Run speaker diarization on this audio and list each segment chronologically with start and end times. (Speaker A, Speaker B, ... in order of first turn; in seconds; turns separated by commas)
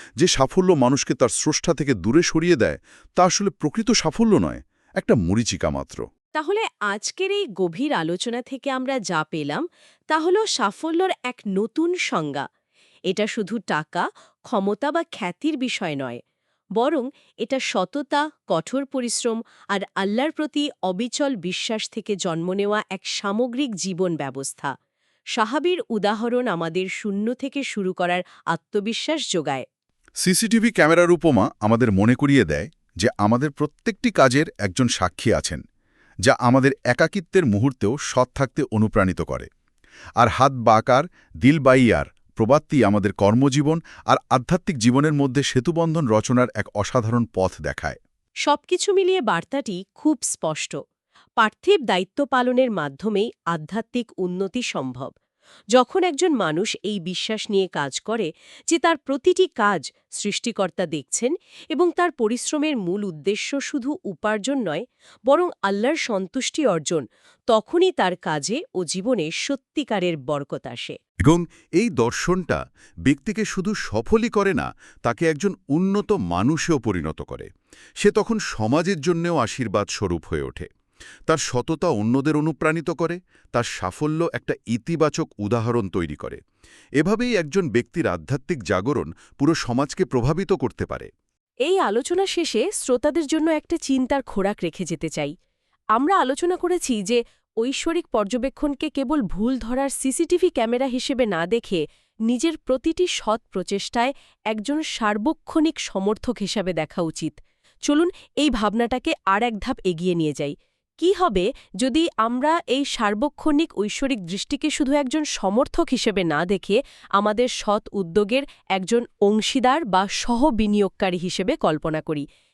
Speaker A: 0.2-6.0, Speaker B: 6.3-12.4, Speaker B: 13.1-16.2, Speaker B: 16.8-24.7, Speaker B: 25.4-29.6, Speaker A: 30.2-35.6, Speaker A: 36.2-39.5, Speaker A: 40.2-48.0, Speaker B: 48.5-50.8, Speaker B: 51.4-55.1, Speaker B: 55.7-71.0, Speaker A: 71.2-77.5, Speaker A: 78.0-80.7, Speaker A: 81.3-86.4, Speaker A: 87.0-91.1, Speaker B: 91.7-95.3, Speaker B: 96.0-122.2